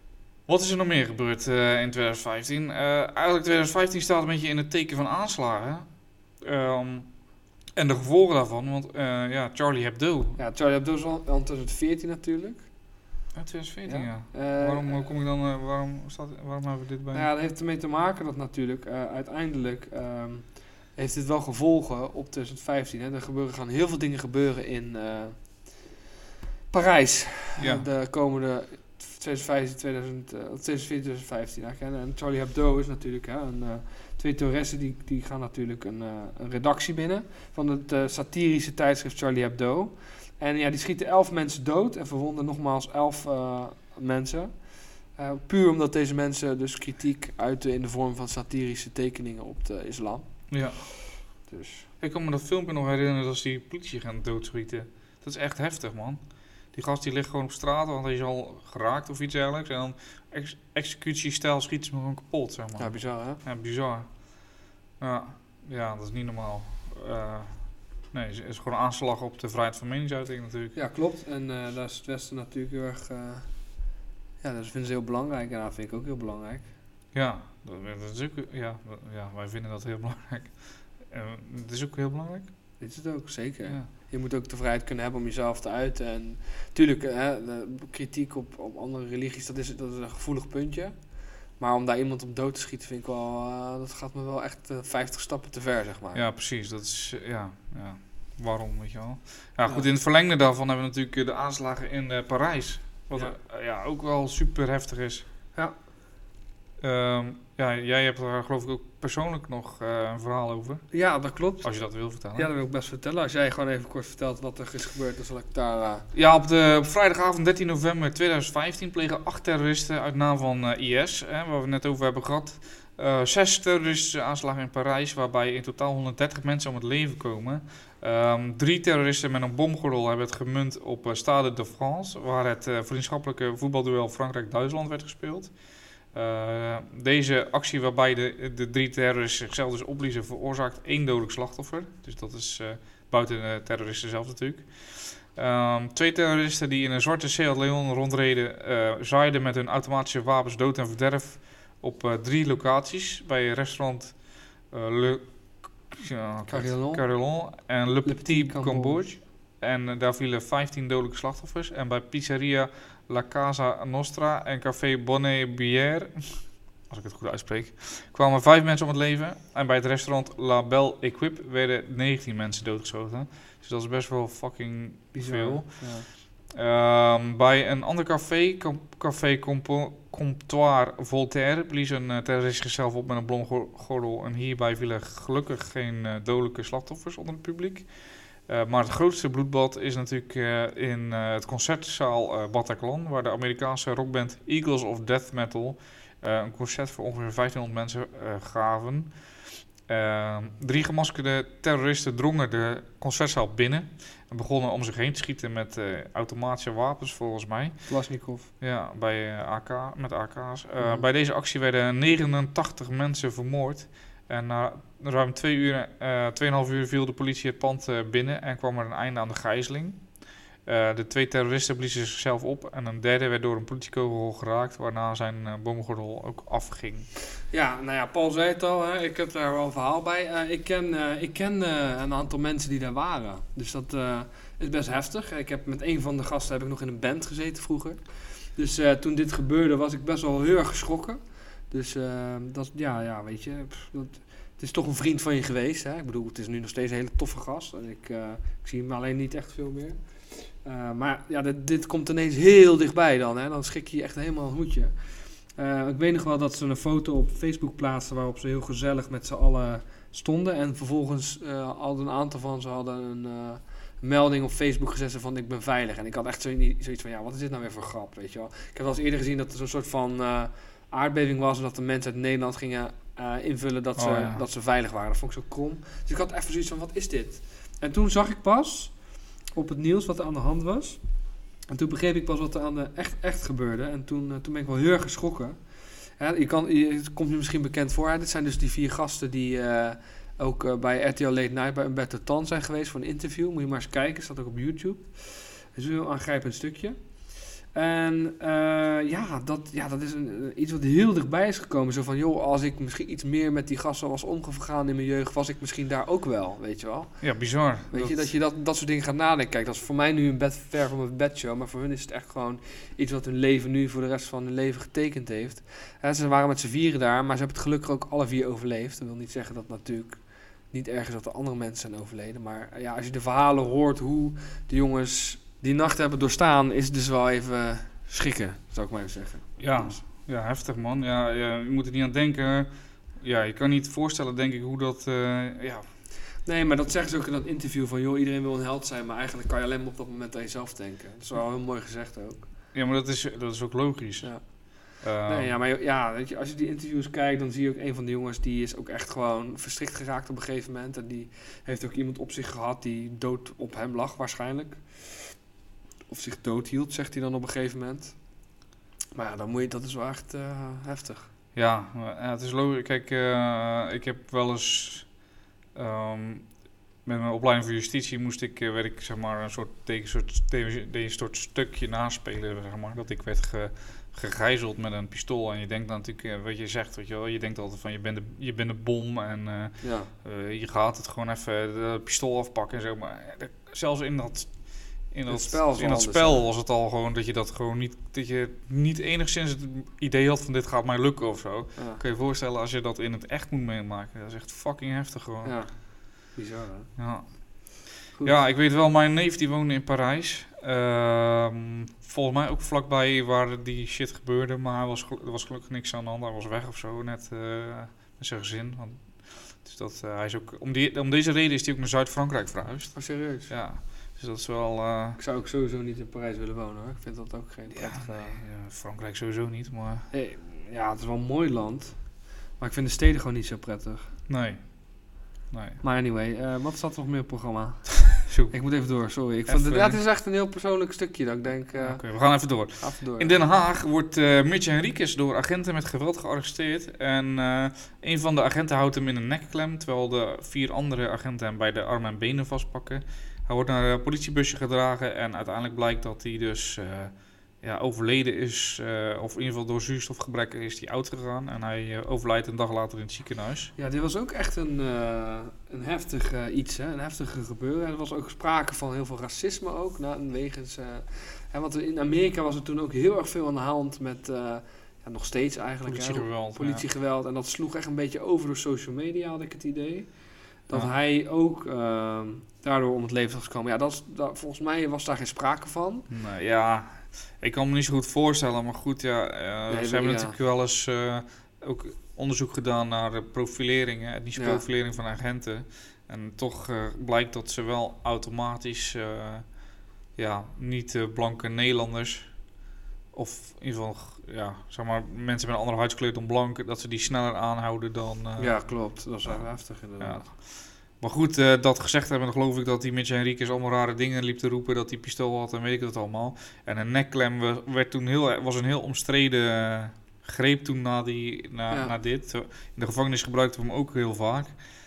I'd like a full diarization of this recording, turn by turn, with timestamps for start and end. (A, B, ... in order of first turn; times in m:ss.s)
0:00.5-0:07.1 A
0:07.8-0:10.4 A
0:10.4-0:12.7 B
0:13.3-0:17.3 A
0:13.9-0:15.1 B
0:17.1-0:25.9 B
0:26.7-0:50.3 B
0:27.6-0:27.9 A
0:50.5-0:50.8 A
0:51.5-0:51.9 B
0:52.0-0:56.2 A
0:56.7-1:04.1 A
1:02.8-1:03.4 B
1:05.0-1:10.8 A
1:10.8-1:13.5 B
1:14.4-1:16.7 B
1:17.1-1:22.5 A
1:22.8-1:36.2 B
1:36.1-1:45.3 A
1:46.8-1:50.8 A
1:50.9-1:51.7 B
1:51.6-1:52.5 A
1:52.3-1:56.1 B
1:56.1-2:15.6 A
2:16.1-3:07.9 A
2:36.5-2:37.0 B
2:38.0-2:39.0 B
2:55.1-2:56.1 B
3:08.5-3:27.8 A
3:27.9-3:28.5 B
3:28.6-3:40.0 A
3:30.8-3:31.1 B
3:40.6-3:47.1 A
3:47.5-4:14.9 B
4:15.5-4:39.0 B
4:34.0-4:34.4 A
4:39.5-4:41.0 B
4:41.7-4:45.6 B
4:46.2-5:30.0 B
5:07.2-5:08.3 A
5:29.6-5:35.9 A
5:36.4-5:42.5 B
5:42.7-5:45.5 A
5:44.2-5:44.7 B
5:45.2-5:55.3 B
5:56.1-5:58.2 B
5:59.2-6:01.3 B
6:01.6-6:05.1 A
6:05.8-6:06.5 A
6:07.0-6:35.6 A
6:19.8-6:20.1 B
6:25.3-6:26.5 B
6:31.8-6:32.0 B
6:35.4-6:36.9 B
6:37.0-6:55.2 A
6:38.2-6:38.5 B
6:53.0-6:53.5 B
6:55.2-6:58.4 B
6:57.7-7:00.1 A
7:00.1-7:04.1 B
7:04.3-7:04.6 A
7:05.5-7:05.8 A
7:05.8-7:12.1 B
7:08.2-7:08.6 A
7:09.5-7:10.0 A
7:11.8-7:33.7 A
7:12.8-7:13.4 B
7:33.8-7:56.1 B
7:45.9-7:46.8 A
7:56.1-8:09.5 A
7:59.7-8:00.4 B
8:04.4-8:04.6 B
8:10.2-8:12.3 A
8:13.1-8:18.6 A
8:18.4-8:20.3 B
8:19.2-8:34.5 A
8:31.7-8:32.0 B